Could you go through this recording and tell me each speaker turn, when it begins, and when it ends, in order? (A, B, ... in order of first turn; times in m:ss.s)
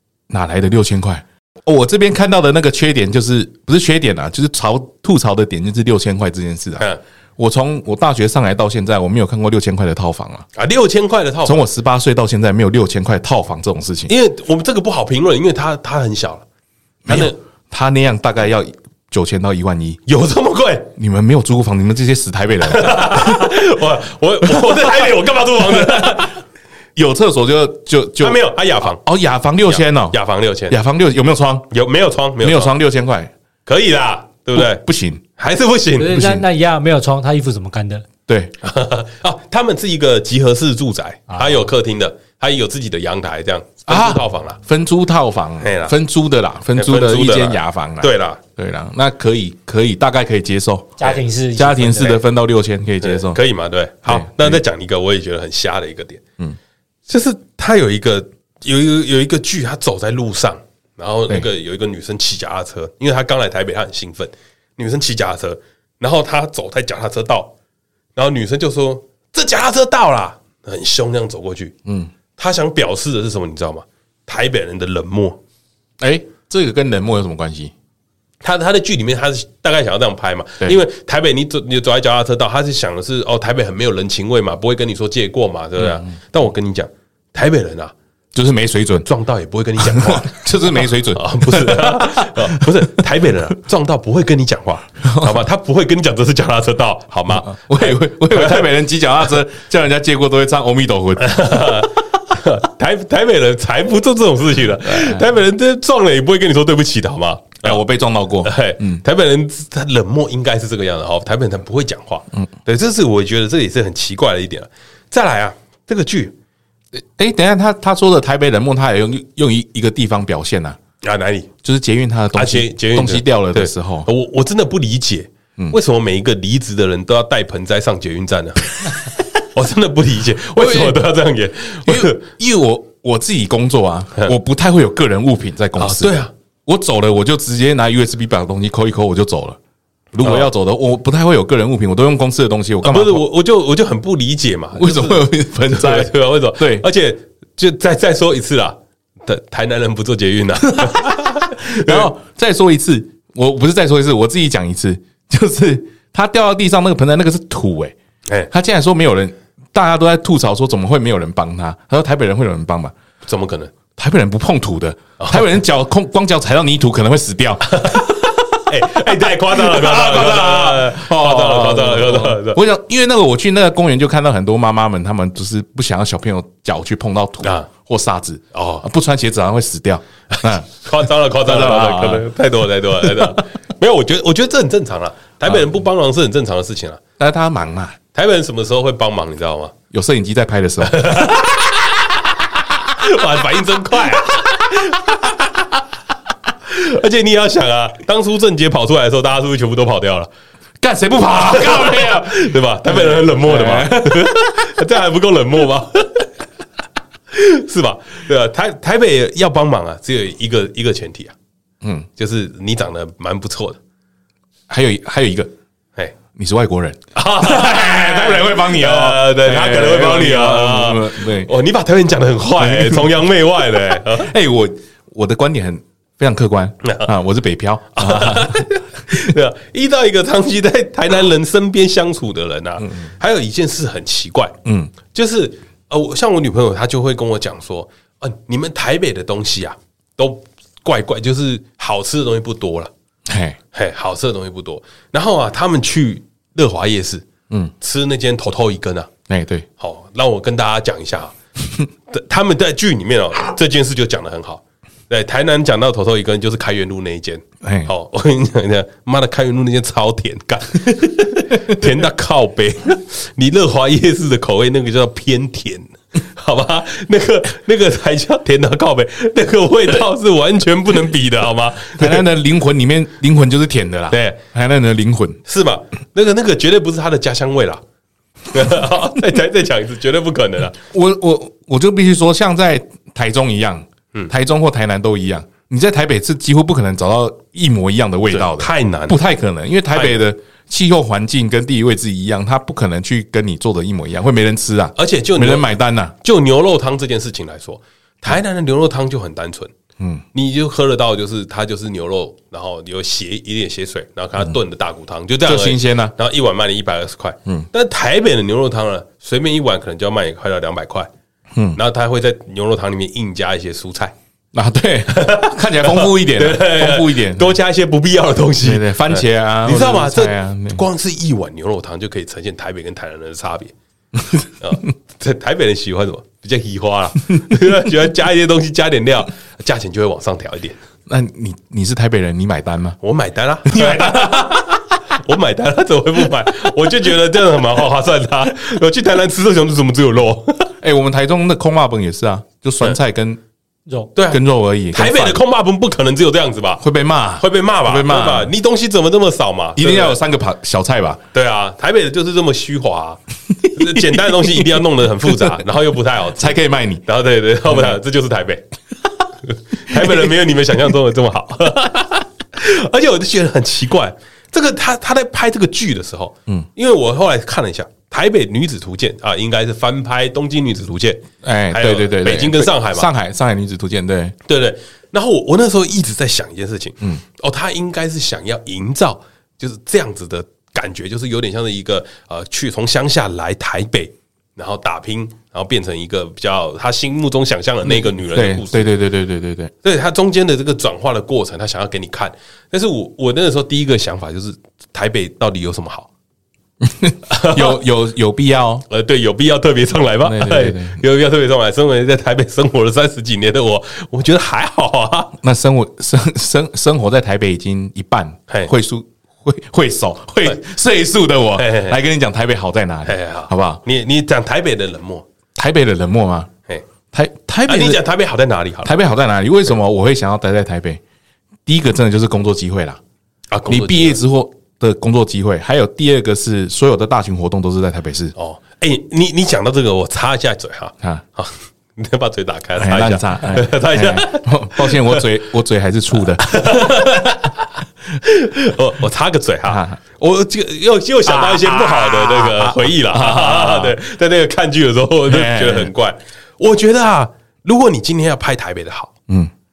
0:00.3-0:10.5 A
0:10.5-0:11.6 B
0:11.4-0:14.1 A
0:14.1-0:16.4 B
0:17.0-0:20.0 A
0:17.1-0:17.4 B
0:20.0-0:20.9 B
0:21.0-0:23.5 A
0:22.6-0:26.4 B
0:25.6-0:26.3 A
0:27.0-0:30.2 A
0:28.2-0:29.0 B
0:29.6-0:30.8 B
0:30.7-0:31.7 A
0:31.7-0:32.7 B
0:32.4-0:33.3 A
0:33.6-0:34.8 B
0:34.5-0:35.2 A
0:35.4-0:36.2 B
0:36.0-0:38.0 C
0:36.1-0:36.4 A
0:38.3-0:38.5 A
0:38.6-0:44.6 B
0:43.9-0:53.4 A
0:45.6-0:45.9 B
0:46.7-0:48.4 B
0:51.0-0:52.2 C
0:53.0-0:56.2 B
0:54.0-0:54.6 A
0:57.1-1:07.5 B
1:08.2-1:11.7 B
1:11.8-1:12.1 A
1:12.4-1:15.4 B
1:16.0-1:17.7 A
1:18.4-1:27.9 B
1:25.8-1:26.1 A
1:28.3-1:29.1 A
1:29.0-1:38.7 B
1:29.8-1:33.0 A
1:35.0-1:35.4 A
1:37.3-1:41.8 A
1:41.2-1:47.8 B
1:44.8-1:45.2 A
1:47.6-1:49.0 A
1:48.4-1:56.3 B
1:56.9-2:00.8 A
2:01.0-2:01.5 B
2:01.6-2:04.1 A
2:02.3-2:12.2 B
2:10.6-2:11.0 A
2:11.8-2:19.6 A
2:15.8-2:16.3 B
2:20.1-2:23.2 A
2:20.2-2:20.5 B
2:22.8-2:32.1 B
2:24.7-2:26.8 A
2:30.7-2:37.9 A
2:38.5-2:42.9 A
2:43.2-2:43.7 B
2:44.0-2:48.4 A
2:45.2-2:45.5 B
2:47.7-2:48.1 B
2:48.6-2:52.6 B
2:49.0-3:00.7 A
2:57.4-2:57.7 B
2:58.5-2:58.8 B
3:00.3-3:07.0 B
3:01.3-3:02.3 A
3:07.2-3:08.0 A
3:08.1-3:09.7 B
3:09.9-3:11.6 A
3:10.8-3:15.3 B
3:14.3-3:15.2 A
3:16.7-3:20.3 B
3:20.8-3:24.7 A
3:21.3-3:26.3 B
3:27.3-3:31.3 B
3:31.8-3:32.1 A
3:32.2-3:33.8 B
3:34.7-3:35.5 A
3:36.3-3:41.5 A
3:37.1-3:44.3 B
3:42.6-3:43.2 A
3:43.8-3:48.7 A
3:46.8-3:47.1 B
3:47.9-3:54.5 B
3:54.6-3:54.9 A
3:55.1-4:02.9 B
4:03.3-4:03.6 A
4:03.7-4:07.2 B
4:07.8-4:09.1 B
4:09.3-4:09.6 A
4:09.8-4:11.3 B
4:12.1-4:32.2 B
4:17.6-4:17.9 A
4:32.0-4:35.4 A
4:34.1-4:34.4 B
4:35.4-4:37.8 B
4:38.5-4:40.8 B
4:40.9-4:56.1 A
4:48.3-4:49.2 B
4:49.9-4:50.2 B
4:55.0-4:59.7 B
5:00.0-5:00.2 A
5:00.3-5:11.1 B
5:05.4-5:06.1 A
5:11.5-5:11.8 A
5:11.7-5:14.1 B
5:14.5-5:17.6 A
5:15.1-5:23.7 B
5:18.6-5:20.8 A
5:24.6-5:30.8 B
5:31.1-5:33.0 A
5:33.0-5:40.7 B
5:33.7-5:34.6 A
5:40.8-5:43.4 A
5:44.1-5:44.4 B
5:44.3-5:45.4 A
5:44.9-5:46.8 B
5:46.8-5:48.5 A
5:47.4-5:50.2 B
5:49.8-5:51.2 A
5:51.3-5:58.6 B
5:53.8-5:54.0 A
5:56.4-5:57.0 A
5:59.5-6:13.1 B
6:11.4-6:14.4 A
6:14.4-6:28.9 B
6:27.8-6:29.7 A
6:29.8-6:36.1 B
6:36.8-6:38.8 A
6:37.3-6:37.8 B
6:38.9-6:45.3 B
6:40.2-6:41.0 A
6:45.4-6:53.8 A
6:51.6-6:52.0 B
6:53.0-6:55.2 B
6:55.5-6:56.5 A
6:57.1-6:58.0 A
6:57.7-6:58.9 B
6:58.8-7:01.0 A
7:01.6-7:03.0 A
7:03.5-7:04.2 B
7:03.7-7:08.3 A
7:08.4-7:15.2 B
7:12.8-7:17.3 A
7:16.4-7:17.6 B
7:18.2-7:29.1 B
7:19.7-7:20.0 A
7:21.2-7:24.0 A
7:25.3-7:25.9 A